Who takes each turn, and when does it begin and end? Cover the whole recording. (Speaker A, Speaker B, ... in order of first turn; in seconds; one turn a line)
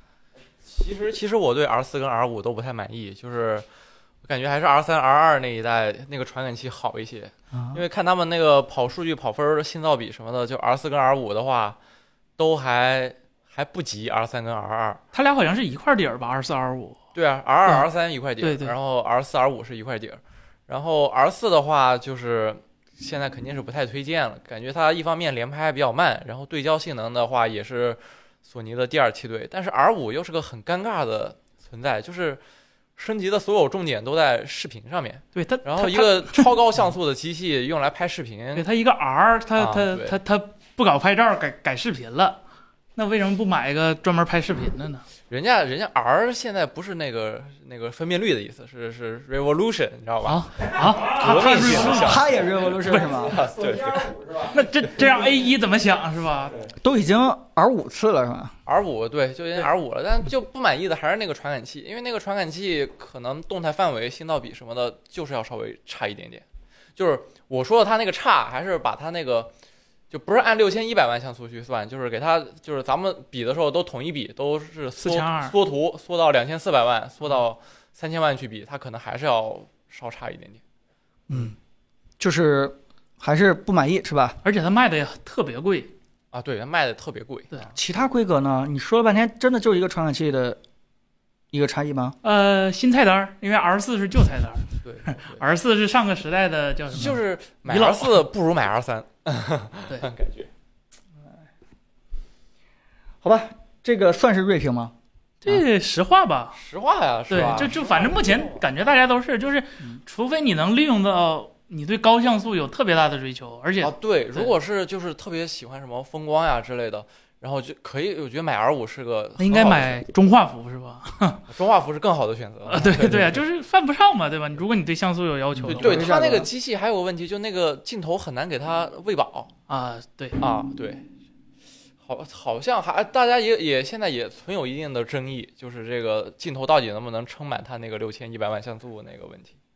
Speaker A: 0.7-3.7
Speaker A: 4.2-11.8
Speaker B: 7.5-7.8
Speaker A: 12.4-15.0
Speaker C: 15.1-17.0
Speaker A: 17.1-32.4
Speaker C: 18.4-18.8
Speaker A: 33.0-38.7
Speaker C: 35.4-36.5
Speaker C: 38.6-42.4
Speaker A: 39.6-40.2
Speaker C: 43.0-45.1
Speaker A: 45.3-54.5
Speaker C: 50.2-52.3
Speaker B: 52.0-53.5
Speaker C: 54.4-56.6
Speaker B: 56.8-58.5
Speaker A: 58.7-66.4
Speaker A: 67.0-69.5
Speaker A: 70.1-80.6
Speaker C: 75.0-75.5
Speaker B: 81.3-81.6
Speaker B: 82.2-84.4
Speaker C: 84.4-85.9
Speaker A: 86.3-87.7
Speaker B: 87.7-90.6
Speaker B: 91.5-92.2
Speaker C: 92.2-98.2
Speaker A: 94.8-95.5
Speaker A: 96.9-100.5
Speaker B: 103.2-104.9
Speaker C: 105.4-106.6
Speaker A: 106.5-108.7
Speaker C: 107.3-114.5
Speaker A: 113.8-120.0
Speaker C: 119.4-121.4
Speaker A: 121.5-123.4
Speaker C: 122.7-126.1
Speaker B: 125.6-126.5
Speaker A: 125.7-129.5
Speaker C: 129.7-130.4
Speaker A: 130.4-131.0
Speaker A: 132.0-139.6